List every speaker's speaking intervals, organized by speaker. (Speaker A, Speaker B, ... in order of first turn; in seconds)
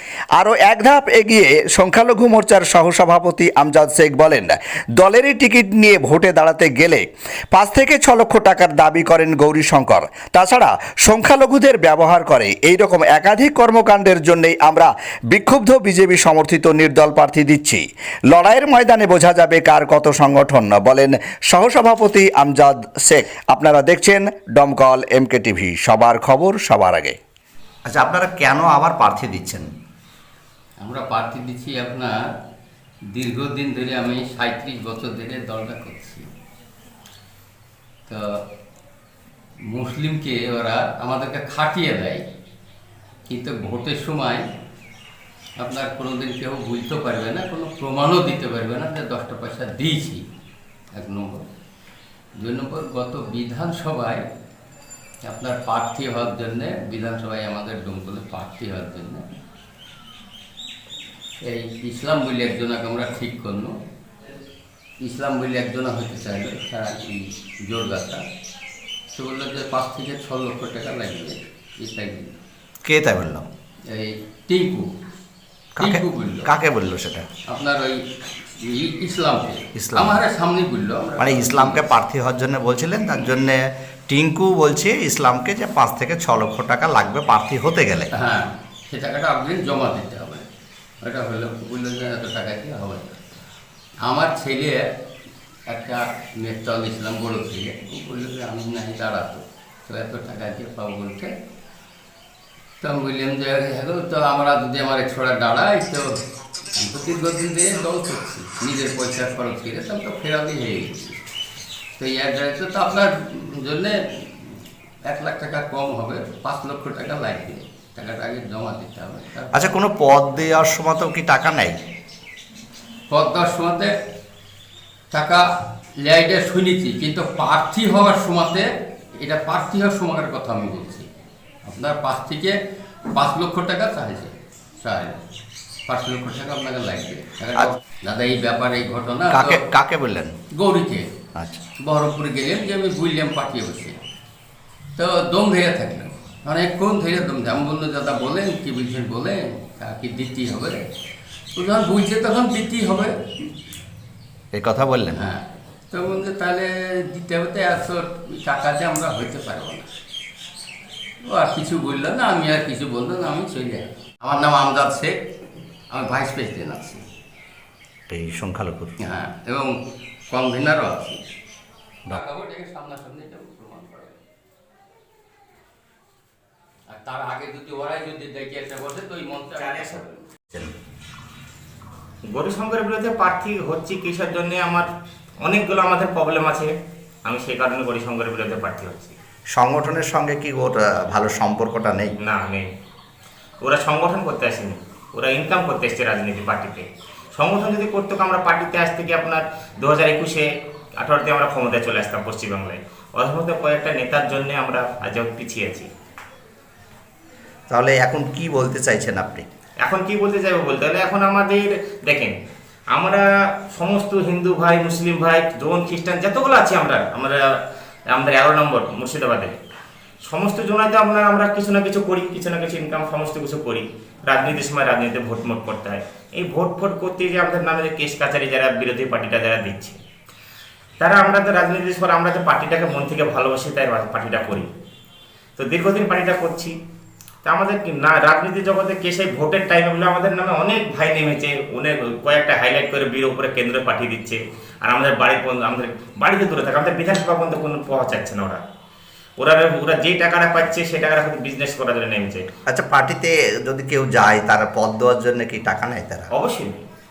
Speaker A: 0.3-27.2, 27.9-29.7, 72.8-73.4, 75.8-77.2, 79.7-80.2, 81.2-88.1, 119.5-121.8, 139.3-140.3, 141.3-141.6, 154.5-155.2, 168.1-168.9, 189.5-192.1, 207.7-209.4, 252.7-256.3
Speaker B: 30.8-32.1, 33.1-36.2, 38.1-38.4, 39.7-42.2, 43.3-44.4, 45.6-50.2, 50.9-51.4, 52.4-54.2, 55.2-59.2, 61.4-63.8, 65.0-68.2, 69.1-72.3, 73.9-74.9, 75.8-76.5, 77.5-78.0, 78.6-81.8, 88.1-90.5, 91.0-93.2, 94.0-94.8, 95.7-101.3, 102.8-106.1, 106.7-111.2, 111.9-120.6, 123.1-123.9, 125.1-125.4, 126.0-131.1, 131.6-132.6, 133.1-135.1, 135.9-139.6, 140.5-141.1, 141.8-143.9, 145.0-150.8, 151.6-153.1, 155.1-159.9, 161.2-165.1, 165.9-167.0, 169.0-169.7, 170.3-171.2, 172.1-174.2, 176.9-180.2
Speaker C: 182.3-184.9, 185.4-186.7, 187.2-189.1, 192.2-192.7, 193.6-205.9, 209.8-212.3, 212.9-217.6, 218.1-219.5, 220.2-230.0, 231.0-234.7, 235.6-236.7, 237.4-248.6, 249.4-252.5, 256.3-256.8